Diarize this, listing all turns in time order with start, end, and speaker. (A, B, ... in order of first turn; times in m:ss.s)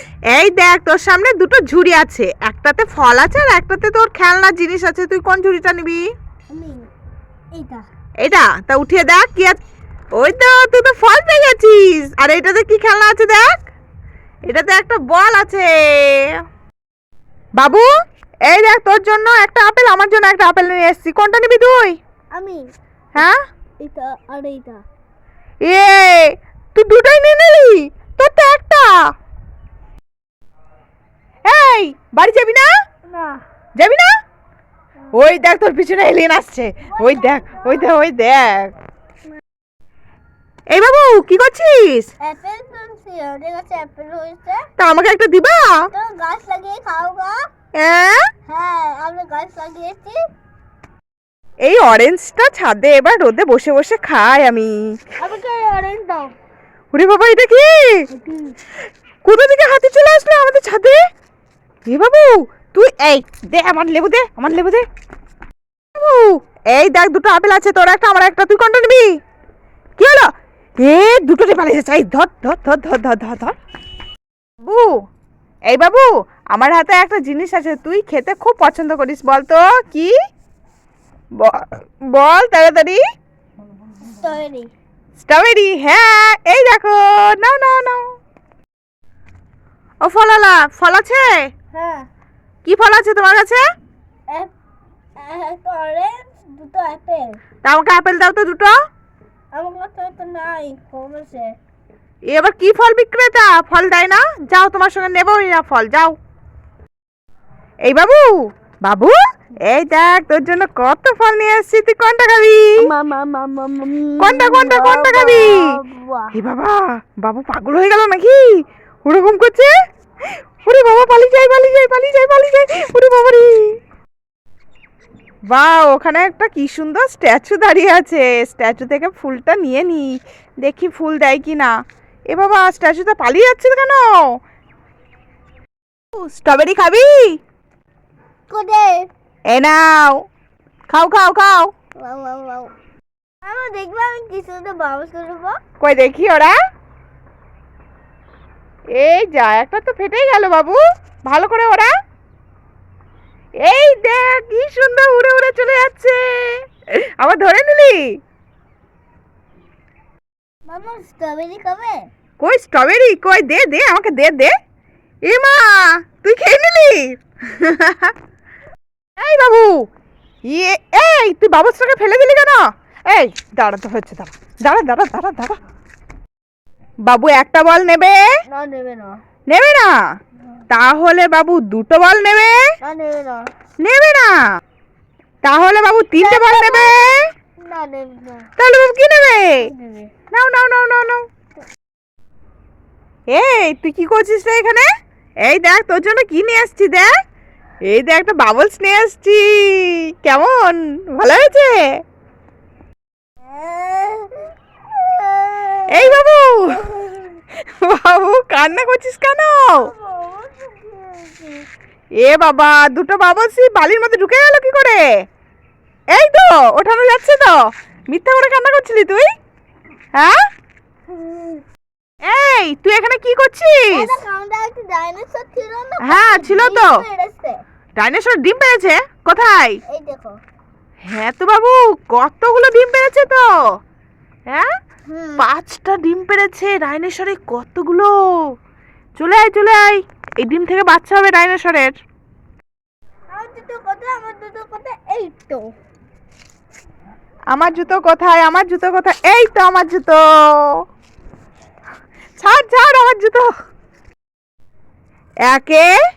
0:00.3-0:06.0 A
0:06.5-0:06.8 B
0:07.5-0:07.8 B
0:08.2-0:09.6 A
0:10.2-0:13.6 A
0:14.5-0:16.2 A
0:17.6-0:17.9 A
0:18.5-0:22.0 A
0:22.3-0:22.6 B
0:23.8-0:24.8 B
0:25.6-0:28.9 A
0:31.4-0:32.7 A
0:33.1-0:33.4 B
0:33.8-0:34.1 A
0:35.1-0:38.7 A
0:36.9-0:37.9 B
0:40.7-0:42.1 A
0:42.2-0:44.6 B
0:44.8-0:45.7 A
0:45.9-0:47.4 B
0:47.8-0:48.2 A
0:48.5-0:50.2 B
0:51.6-0:54.8 A
0:55.2-0:56.3 B
0:56.9-0:58.0 A
0:58.1-0:58.6 B
0:59.2-1:01.0 A
1:01.9-1:04.8 A
1:05.9-1:09.0 A
1:10.0-1:10.3 A
1:10.8-1:13.5 A
1:14.6-1:14.9 A
1:15.7-1:20.1 A
1:21.4-1:23.0 A
1:24.0-1:24.7 B
1:25.2-1:28.0 A
1:30.0-1:31.3 A
1:31.7-1:32.0 B
1:32.6-1:33.6 A
1:35.2-1:37.4 B
1:37.6-1:38.7 A
1:39.5-1:41.5 B
1:42.3-1:46.1 A
1:47.8-1:49.2 A
1:49.7-1:52.7 A
1:52.8-1:56.3 B
1:54.2-1:55.6 A
1:56.3-1:58.5 A
1:59.0-1:59.7 A
2:00.6-2:03.5 A
2:05.5-2:10.1 A
2:10.6-2:11.7 A
2:12.3-2:14.0 A
2:16.2-2:17.1 A
2:18.5-2:19.1 B
2:19.5-2:20.2 A
2:20.9-2:21.7 A
2:22.0-2:22.7 B
2:23.4-2:25.6 B
2:25.8-2:26.5 A
2:29.0-2:31.9 A
2:33.6-2:36.6 A
2:37.2-2:38.0 A
2:40.7-2:42.0 B
2:42.4-2:44.5 A
2:45.2-2:48.1 A
2:49.2-2:49.7 A
2:50.5-2:55.6 A
2:57.0-2:58.2 A
2:58.5-2:59.1 B
2:59.5-2:59.9 A
3:00.7-3:02.6 A
3:02.8-3:03.4 B
3:03.8-3:04.4 A
3:05.4-3:07.0 A
3:06.2-3:08.5 B
3:08.6-3:09.7 A
3:09.6-3:10.1 B
3:10.3-3:11.2 A
3:13.3-3:14.9 A
3:15.4-3:17.1 A
3:17.9-3:21.8 A
3:23.4-3:26.2 B
3:25.9-3:26.9 A
3:27.8-3:29.6 A
3:29.8-3:31.6 B
3:32.2-3:35.0 A
3:36.1-3:37.6 A
3:38.1-3:39.2 A
3:41.1-3:41.6 B
3:42.2-3:44.1 A
3:43.9-3:47.6 B
3:46.0-3:46.9 A
3:48.0-3:49.8 A
3:49.9-3:50.4 B
3:51.1-3:53.5 A
3:55.1-3:55.4 B
3:55.4-3:58.1 A
3:59.2-4:01.9 A
4:03.3-4:05.7 B
4:07.5-4:10.8 A
4:12.4-4:13.5 A
4:15.4-4:15.9 A